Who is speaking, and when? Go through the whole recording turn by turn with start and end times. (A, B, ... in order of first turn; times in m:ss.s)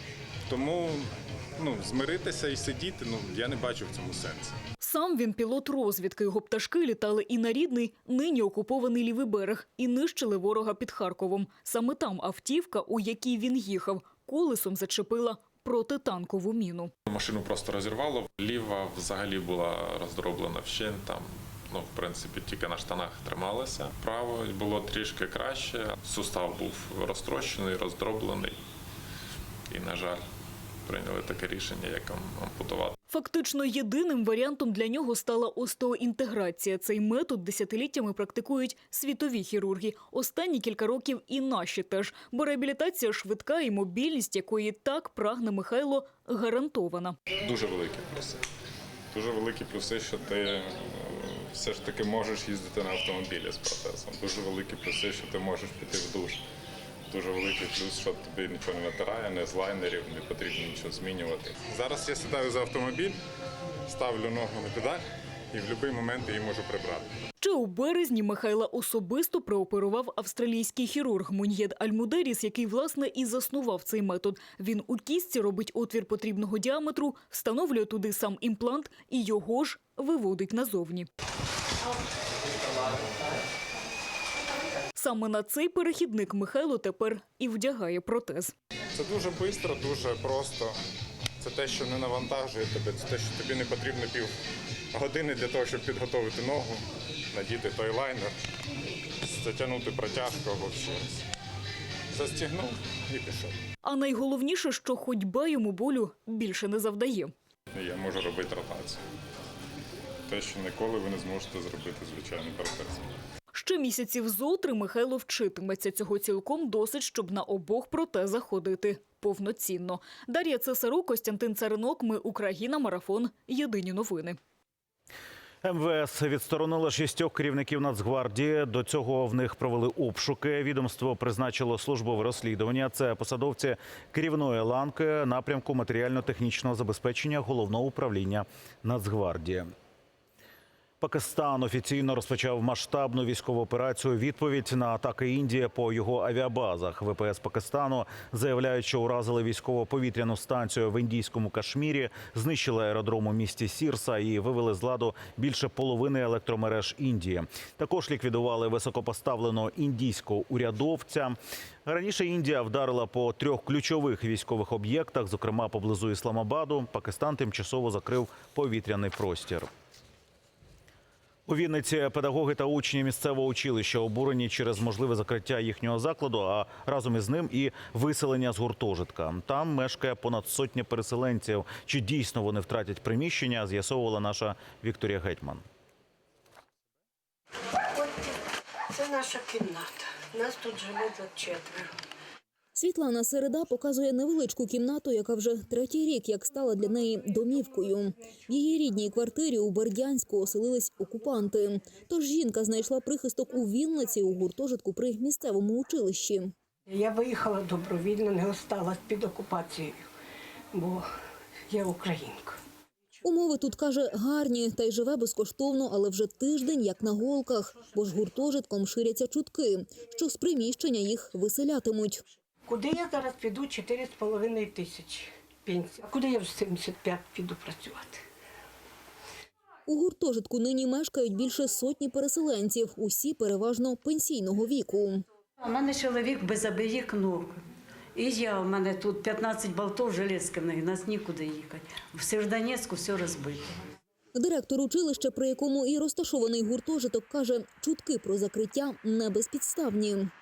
0:00.5-0:04.6 A
0:04.8-0:16.9 B
0:17.1-0:28.6 C
0:29.7-0:30.3 C
0:30.9-0:33.0 C
0:33.1-0:47.2 B
0:47.5-0:48.1 C
0:49.1-0:56.4 A
0:57.1-1:03.2 A
1:03.9-1:07.1 A
1:07.4-1:21.1 B
1:25.0-1:28.5 B
1:29.0-1:30.8 A
1:31.4-1:34.3 A
1:34.9-1:38.4 A
1:39.3-1:41.2 A
1:42.1-1:43.6 A
1:43.8-1:47.3 B
1:47.7-1:49.0 A
1:50.3-1:53.1 A
1:53.5-2:04.4 B
2:05.6-2:19.7 D
2:21.0-2:49.7 D
2:51.5-3:05.6 D
3:08.9-3:11.9 E
3:12.8-3:26.5 F
3:26.9-3:30.1 E
3:30.7-3:31.1 E
3:31.7-3:32.6 E
3:33.2-3:42.2 F
3:42.6-3:48.2 E
3:49.9-3:55.2 F
3:55.6-3:57.6 G
3:58.2-4:03.8 G
4:04.4-4:10.3 F